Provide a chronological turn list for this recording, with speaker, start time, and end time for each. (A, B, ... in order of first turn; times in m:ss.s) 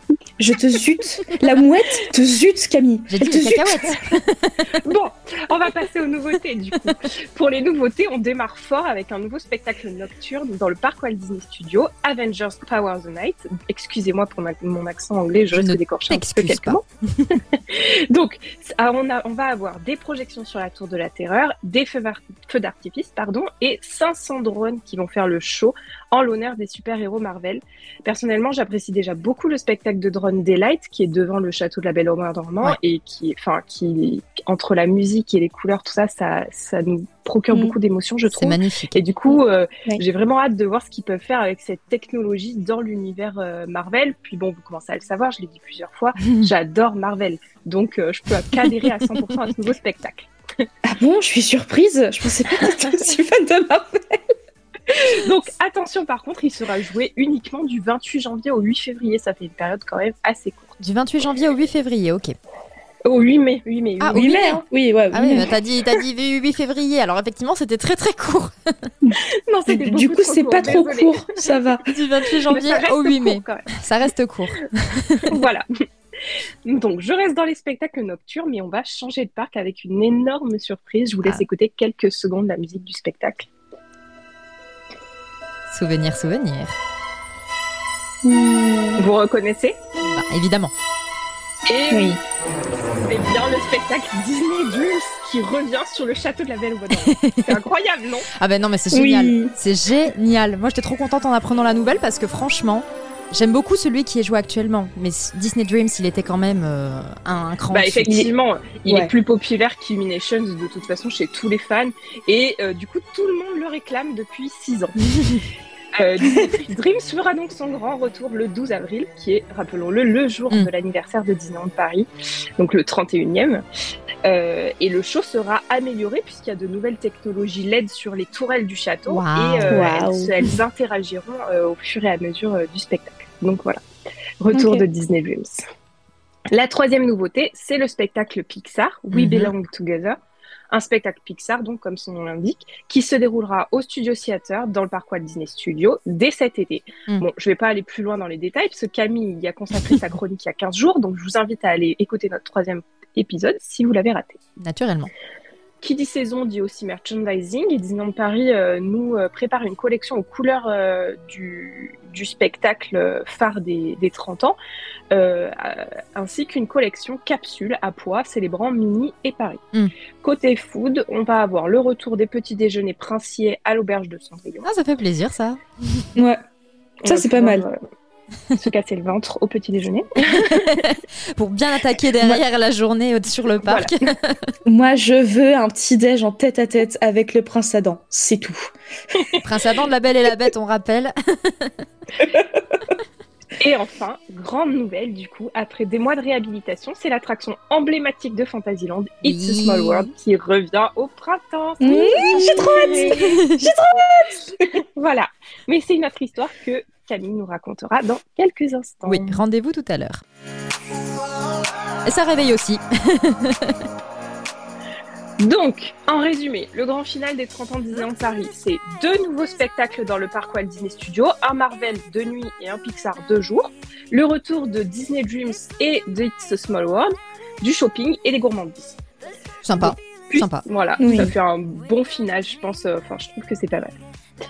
0:00.4-0:03.9 A
0:03.1-0:04.7 B
0:04.8-0:50.3 C
0:15.5-0:17.2 B
0:37.5-0:37.8 A
0:38.3-0:39.0 B
0:50.8-0:54.2 A
0:54.9-1:00.8 C
1:00.8-1:02.3 B
1:03.0-1:04.5 C
1:04.0-1:04.6 B
1:04.1-1:05.5 A
1:05.1-1:08.9 B
1:09.0-1:11.8 A
1:09.5-1:11.6 C
1:11.9-1:15.3 B
1:12.5-1:13.8 C
1:15.3-1:15.6 C
1:16.6-1:23.5 C
1:25.7-1:26.8 B
1:28.2-1:29.0 A
1:29.0-1:29.8 C
1:30.0-1:30.7 B
1:31.7-1:32.2 C
1:31.9-1:32.2 A
1:32.9-1:38.3 C
1:37.0-1:37.5 B
1:38.4-1:48.2 B
1:38.9-1:39.5 A
1:47.7-1:55.0 C
1:48.9-1:49.1 A
1:56.0-2:03.6 C
2:04.2-2:13.8 C
2:09.1-2:09.9 B
2:09.7-2:10.3 A
2:14.4-2:15.6 C
2:14.5-2:14.8 A
2:16.5-2:20.2 C
2:19.1-2:19.5 B
2:20.7-2:34.4 C
2:34.6-2:35.1 B
2:35.8-2:44.6 C
2:45.1-2:49.6 C
2:50.2-2:54.7 C
2:54.6-2:56.0 B
2:56.2-2:56.4 A
2:57.0-2:57.8 C
2:57.0-2:57.6 A
2:58.6-3:00.8 C
3:00.3-3:04.4 B
3:03.6-3:04.0 C
3:04.6-3:08.7 A
3:09.4-3:11.7 B
3:13.6-3:23.3 C
3:19.2-3:20.1 B
3:21.8-3:24.4 A
3:21.8-3:23.7 B
3:24.7-3:29.4 C
3:29.0-3:30.2 B
3:32.0-3:33.8 B
3:35.4-3:49.0 C
3:49.6-3:50.6 B
3:49.8-3:54.0 C
3:51.0-3:51.3 A